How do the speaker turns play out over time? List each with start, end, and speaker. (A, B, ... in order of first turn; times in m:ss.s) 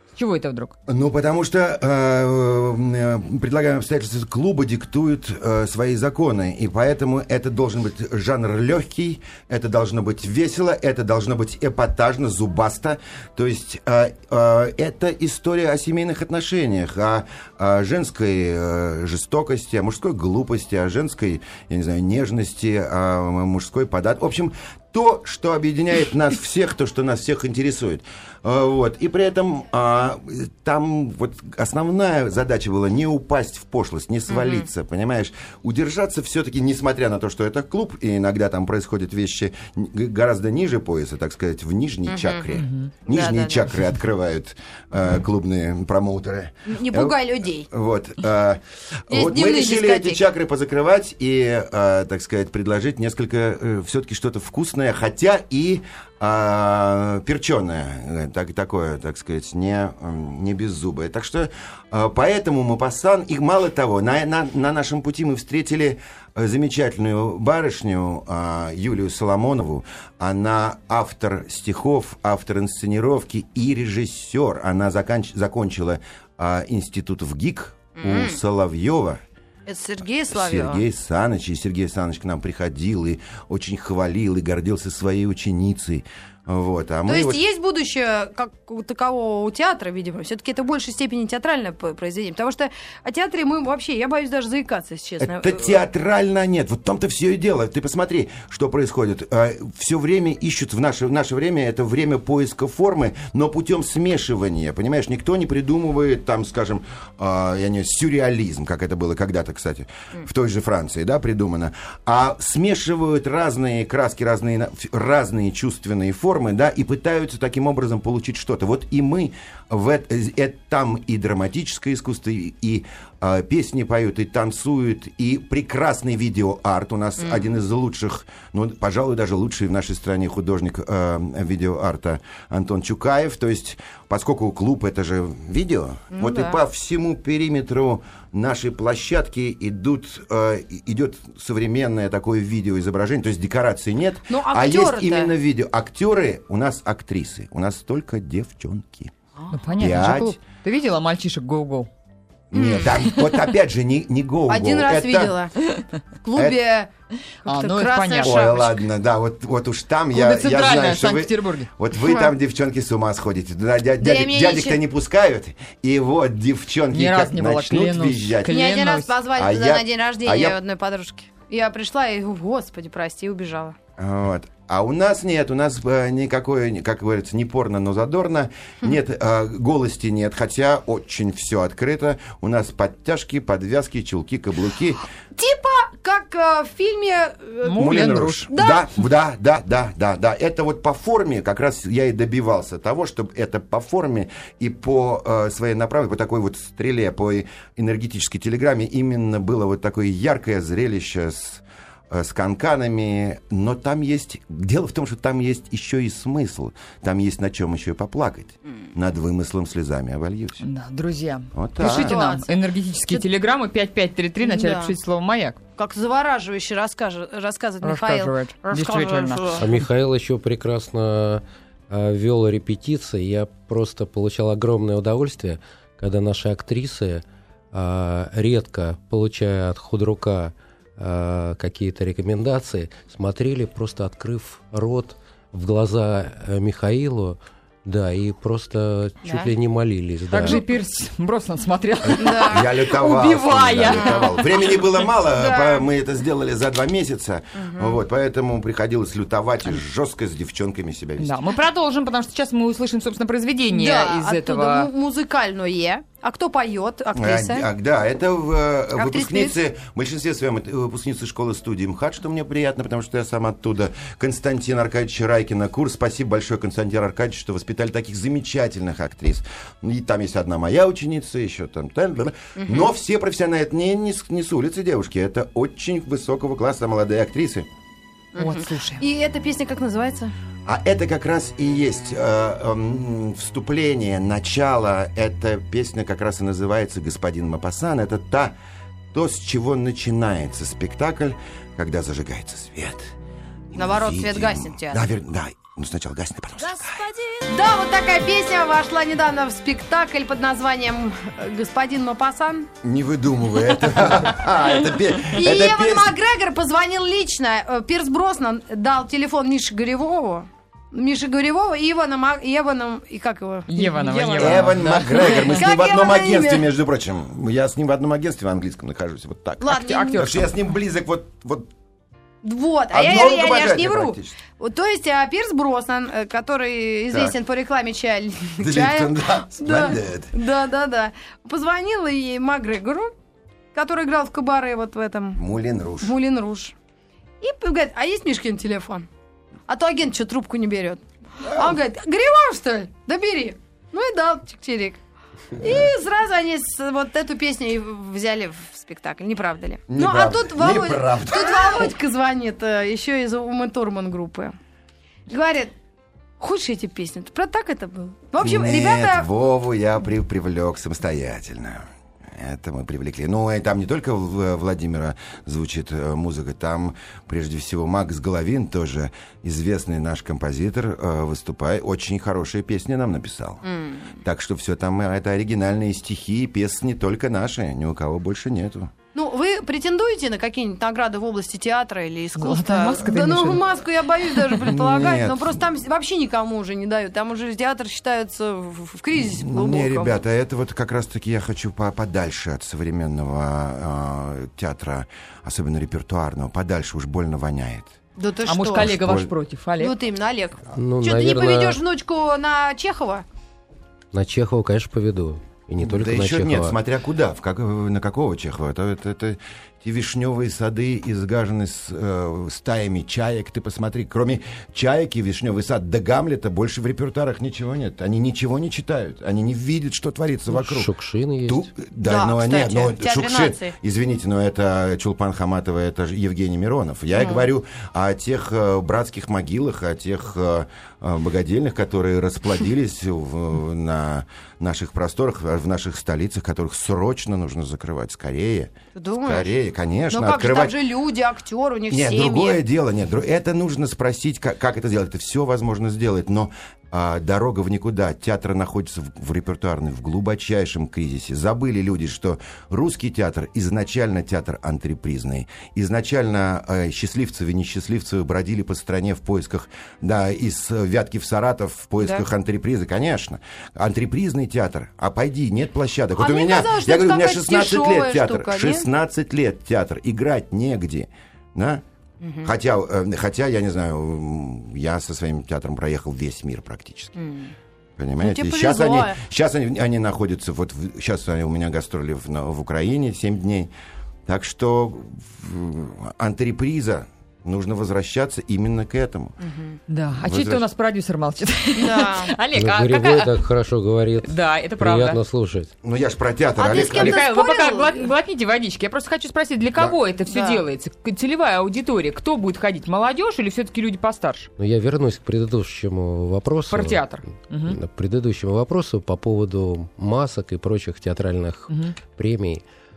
0:00.2-0:00.7 A
0:00.9-1:19.2 B
0:34.3-0:34.7 C
0:42.1-0:43.7 C
0:42.6-0:42.9 A
0:46.7-0:47.7 C
0:49.1-0:50.2 C
1:18.0-1:18.4 C
1:19.7-1:20.8 C
1:20.3-1:27.4 B
1:27.1-1:35.8 C
1:35.2-2:29.1 B
2:07.2-2:07.5 C
2:16.1-2:16.6 C
2:24.3-2:25.3 C
2:29.5-2:31.9 A
2:29.8-2:30.4 B
2:32.5-2:35.4 B
2:32.5-2:32.9 C
2:33.0-2:33.4 A
2:34.5-2:35.6 C
2:36.2-2:36.9 C
2:37.4-2:38.5 A
2:37.4-2:38.8 C
2:38.2-2:48.5 B
2:40.1-2:41.7 A
2:42.0-2:42.3 C
2:44.0-2:44.8 C
2:46.9-2:49.2 A
2:48.5-2:53.8 C
2:49.4-2:50.6 B
2:54.0-3:05.0 B
3:05.4-3:08.8 C
3:07.6-3:08.5 A
3:07.8-3:30.6 B
3:30.6-3:35.6 A
3:31.5-3:32.2 B
3:31.8-3:32.5 C
3:34.4-3:34.9 C
3:35.8-3:39.6 C
3:37.8-3:39.7 A
3:39.6-4:00.6 D
3:59.2-3:59.5 C
4:00.3-4:04.9 A
4:02.2-4:02.7 C
4:02.2-4:11.4 B
4:03.9-4:04.3 C
4:05.4-4:05.9 C
4:07.6-4:08.0 C
4:11.2-4:14.9 A
4:13.7-4:17.7 C
4:17.1-4:37.7 B
4:19.0-4:19.6 C
4:32.6-4:32.9 C
4:38.4-4:40.3 C
4:38.4-4:39.0 A
4:40.7-4:48.5 B
4:49.1-4:53.1 B
4:53.7-4:57.0 B
4:53.8-4:55.0 C
4:56.6-5:02.7 C
5:02.8-5:06.2 B
5:05.3-5:16.7 C
5:13.7-5:15.6 A
5:14.4-5:21.7 B
5:19.6-5:20.4 C
5:19.9-5:20.4 A
5:22.4-5:33.1 C
5:22.9-5:24.4 B
5:28.6-5:30.3 B
5:33.7-5:35.4 C
5:35.4-5:36.1 B
5:36.0-5:36.8 C
5:37.4-5:39.1 C
5:39.7-5:45.0 C
5:41.4-5:41.8 B
5:45.6-5:54.6 C
5:49.9-5:51.9 B
5:55.3-5:55.7 C
5:56.4-5:59.3 C
5:58.4-6:13.6 B
6:13.6-6:14.2 C
6:14.2-6:18.9 B
6:19.1-6:30.2 C
6:22.4-6:23.6 A
6:24.6-6:25.6 B
6:29.2-6:38.0 B
6:38.2-6:38.9 C
6:38.5-6:40.0 A
6:38.8-6:39.3 B
6:39.8-6:43.2 C
6:40.7-6:41.8 D
6:44.1-6:46.8 D
6:45.8-7:00.9 B
7:00.5-7:01.7 D
7:01.5-7:20.8 B
7:02.0-7:03.7 C
7:07.1-7:07.5 C
7:19.0-7:19.5 C
7:20.1-7:22.6 C
7:21.9-7:51.8 B
7:46.2-7:48.9 C
7:52.2-7:52.5 C
7:52.4-7:57.2 B
7:57.2-7:57.5 C
7:58.0-8:03.7 B
7:58.2-7:59.2 C
8:04.3-8:09.4 B
8:09.4-8:09.8 C
8:09.9-8:13.4 A
8:10.2-8:10.6 B
8:11.8-8:12.3 C
8:12.5-8:15.7 D
8:14.2-8:15.2 A
8:15.8-8:17.2 B
8:16.6-8:18.1 C
8:16.8-8:24.5 A
8:20.3-8:20.6 C
8:24.6-8:27.0 D
8:26.7-8:27.8 A
8:27.6-8:32.6 D
8:31.7-8:32.0 A